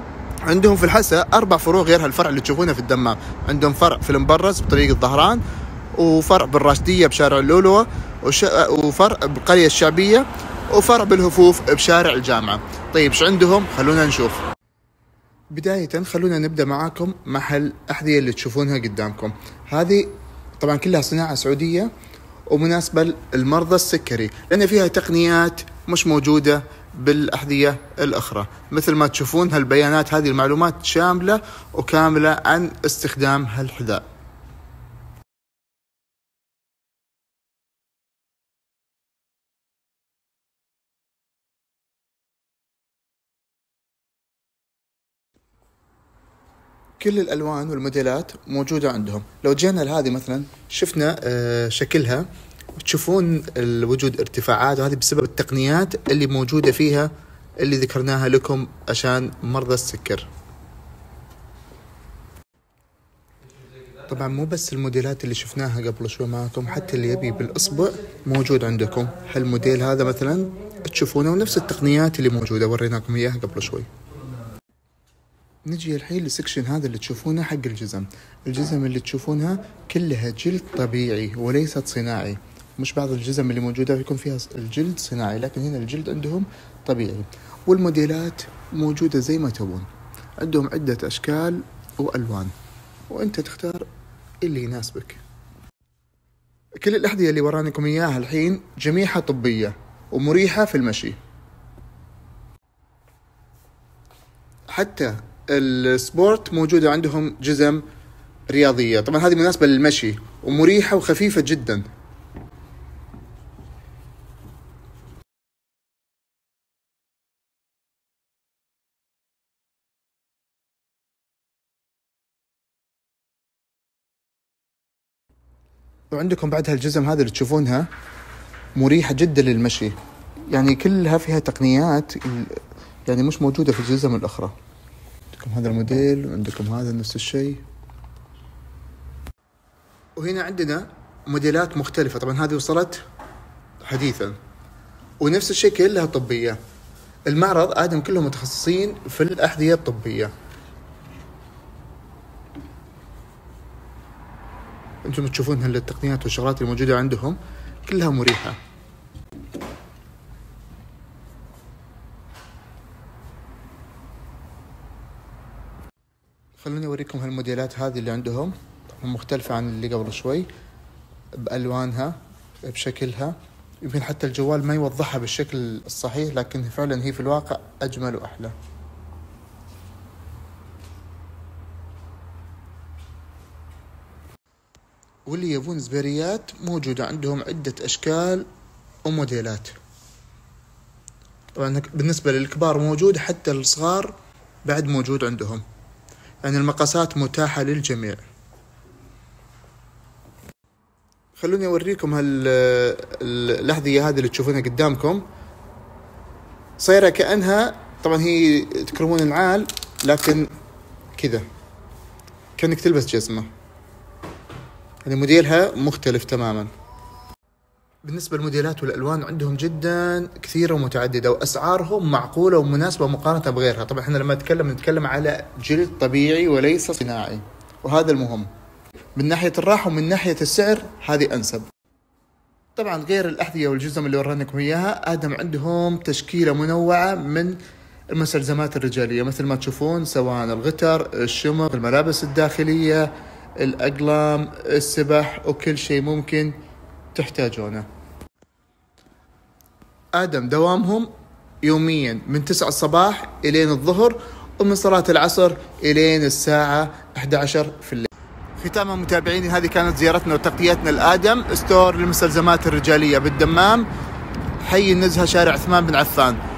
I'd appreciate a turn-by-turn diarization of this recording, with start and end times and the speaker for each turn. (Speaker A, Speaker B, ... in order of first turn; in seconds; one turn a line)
Speaker A: 0.5-5.4
Speaker A: 6.0-14.4
Speaker A: 15.5-21.9
Speaker A: 22.5-34.0
Speaker A: 47.0-60.3
Speaker A: 64.1-73.9
Speaker A: 75.7-89.9
Speaker A: 90.4-92.5
Speaker A: 93.1-93.9
Speaker A: 94.4-95.2
Speaker A: 96.8-101.2
Speaker A: 104.7-107.8
Speaker A: 108.5-111.9
Speaker A: 126.1-127.9
Speaker A: 128.8-130.0
Speaker A: 130.5-134.6
Speaker A: 135.3-137.6
Speaker A: 140.2-143.0
Speaker A: 143.8-144.4
Speaker A: 145.2-146.6
Speaker A: 147.3-150.3
Speaker A: 155.0-158.6
Speaker A: 166.6-170.5
Speaker A: 171.4-178.5
Speaker A: 185.3-188.5
Speaker A: 189.1-189.8
Speaker A: 191.6-194.1
Speaker A: 194.7-195.6
Speaker A: 196.4-198.2
Speaker A: 201.4-205.2
Speaker A: 206.8-210.5
Speaker A: 211.2-211.4
Speaker A: 212.6-213.5
Speaker A: 215.1-216.7
Speaker A: 218.0-228.5
Speaker A: 229.2-231.7
Speaker A: 232.8-237.6
Speaker A: 238.1-246.6
Speaker A: 247.2-247.9
Speaker A: 250.2-251.1
Speaker A: 251.6-263.9
Speaker A: 264.6-266.4